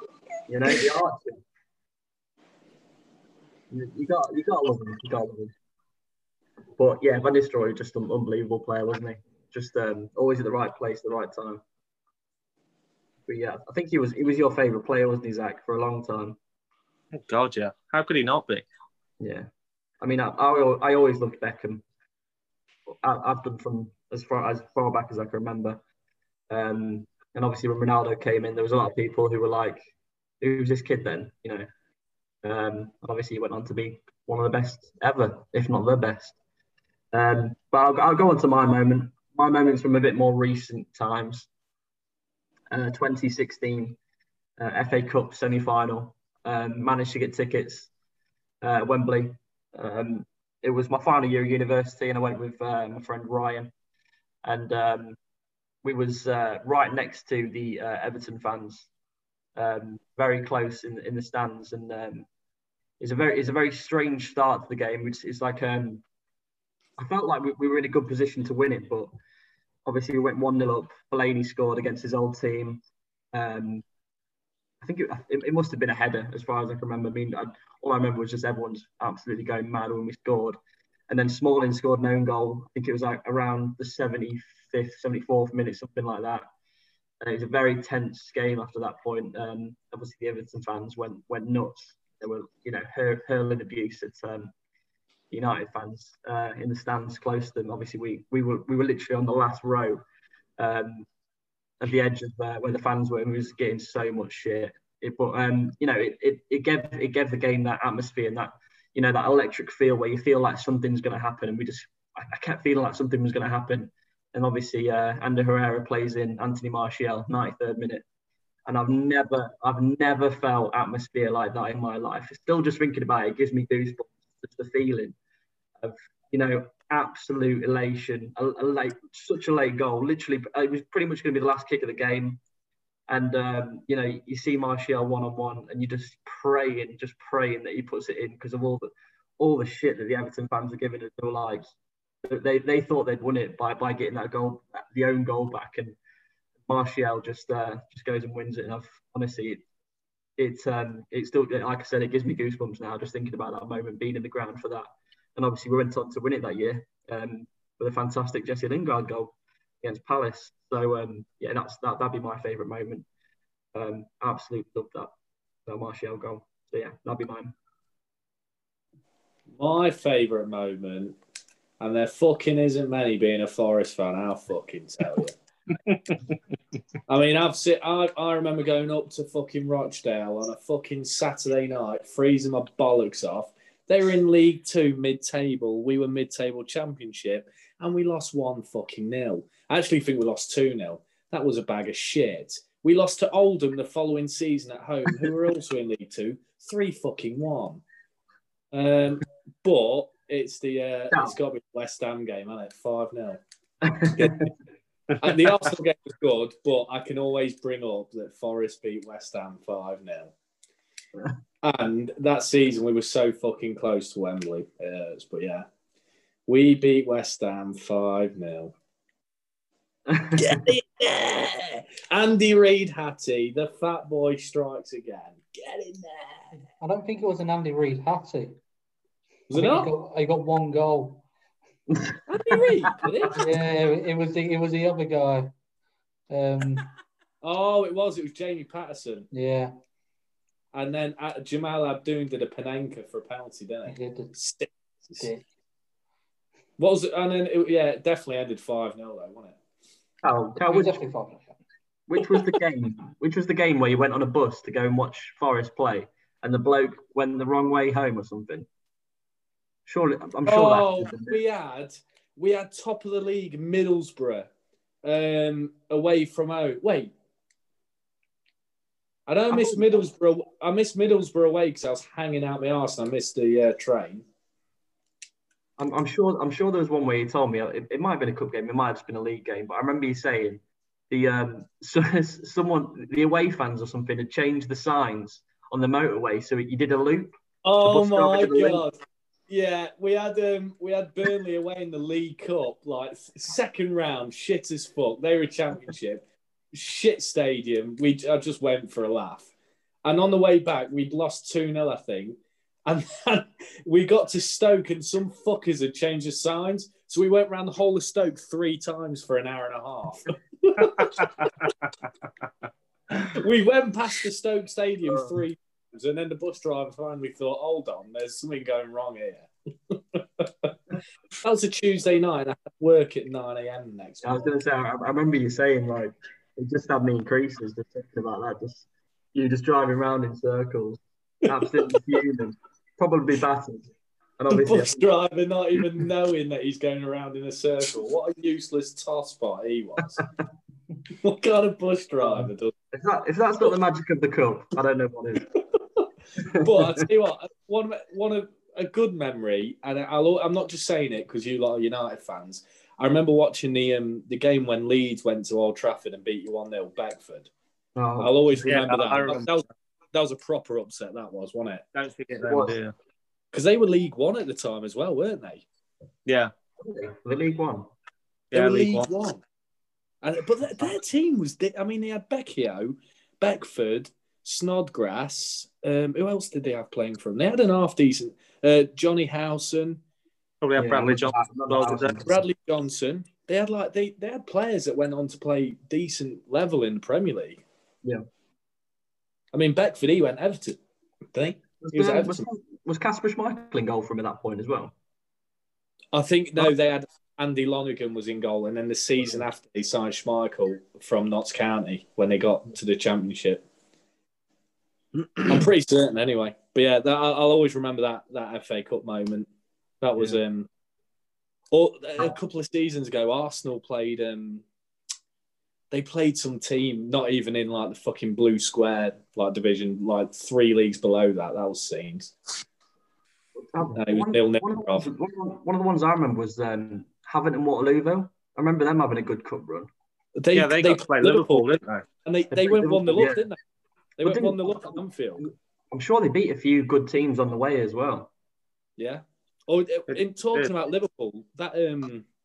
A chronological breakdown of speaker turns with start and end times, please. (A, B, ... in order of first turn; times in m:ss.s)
0:00.5-0:01.4 A
0:03.7-0:05.5 A
0:06.8-0:11.6 A
0:13.3-0:16.4 A
0:17.1-0:18.7 B
0:19.2-0:19.5 A
0:20.0-0:21.8 A
0:23.0-0:25.8 A
0:26.5-0:31.7 A
0:32.4-0:36.4 A
0:37.1-0:41.5 A
0:42.7-0:44.0 A
0:44.6-0:47.9 A
0:48.6-0:53.7 A
0:54.4-0:55.2 A
0:55.8-0:58.9 A
0:59.6-1:02.3 A
1:03.0-1:06.0 A
1:07.0-1:09.2 A
1:09.9-1:13.8 A
1:14.8-1:20.6 A
1:21.1-1:26.5 A
1:27.2-1:34.5 A
1:35.3-1:40.0 A
1:40.6-1:41.1 A
1:41.8-1:58.0 A
1:58.7-2:05.2 A
2:05.8-2:12.4 A
2:13.1-2:21.7 A
2:22.2-2:26.0 A
2:26.7-2:29.6 A
2:30.4-2:43.1 A
2:43.8-2:45.1 A
2:45.7-2:47.6 A
2:49.6-2:51.2 C
2:51.8-2:55.4 C
2:57.1-3:17.8 C
3:18.7-3:23.4 C
3:23.8-3:24.5 A
3:24.1-3:24.5 C
3:25.2-3:30.3 C
3:31.6-3:35.7 C
3:36.5-3:38.7 C
3:40.1-3:40.6 A
3:40.4-3:46.4 C
3:46.8-3:48.6 D
3:49.5-3:49.9 C
3:49.5-3:51.2 D
3:51.9-3:52.2 A
3:52.3-3:53.4 C
3:53.0-3:53.3 A
3:53.3-3:55.5 D
3:56.3-3:56.9 D
3:57.4-3:59.3 C
3:59.3-3:59.7 D
4:00.7-4:05.3 C
4:03.9-4:04.4 D
4:05.2-4:05.4 D
4:06.8-4:09.6 C
4:10.2-4:11.0 A
4:10.6-4:11.6 D
4:12.1-4:18.7 A
4:19.9-4:21.4 A
4:20.5-4:24.5 C
4:25.0-4:27.1 C
4:29.3-4:34.3 C
4:29.5-4:30.0 A
4:35.8-4:48.8 A
4:47.6-4:49.0 C
4:49.5-4:59.5 C
5:00.0-5:11.5 C
5:11.0-5:11.7 B
5:13.1-5:20.8 C
5:21.4-5:24.5 C
5:24.2-5:35.1 A
5:31.5-5:32.0 C
5:34.5-5:40.2 C
5:41.2-5:42.7 C
5:42.3-5:45.5 A
5:46.4-5:47.1 A
5:46.6-5:57.5 C
5:58.0-5:58.5 A
5:58.2-6:01.8 C
5:58.6-5:59.6 B
6:02.0-6:02.9 B
6:02.4-6:02.8 A
6:03.5-6:05.6 C
6:06.3-6:06.5 B
6:06.8-6:07.9 A
6:08.5-6:09.1 B
6:08.5-6:09.4 C
6:10.2-6:20.0 C
6:20.6-6:22.2 B
6:20.8-6:22.4 A
6:22.2-6:27.6 C
6:29.5-6:30.8 C
6:31.3-6:32.5 C
6:31.8-6:35.0 A
6:36.1-6:43.6 C
6:45.2-6:49.5 C
6:50.0-6:50.7 C
6:51.7-6:54.6 C
6:55.9-7:02.4 C
7:03.7-7:09.9 A
7:03.9-7:05.0 C
7:10.4-7:13.6 C
7:10.5-7:12.1 B
7:12.5-7:13.5 A
7:14.2-7:15.5 C
7:14.2-7:18.3 A
7:19.0-7:22.2 C
7:20.1-7:20.7 B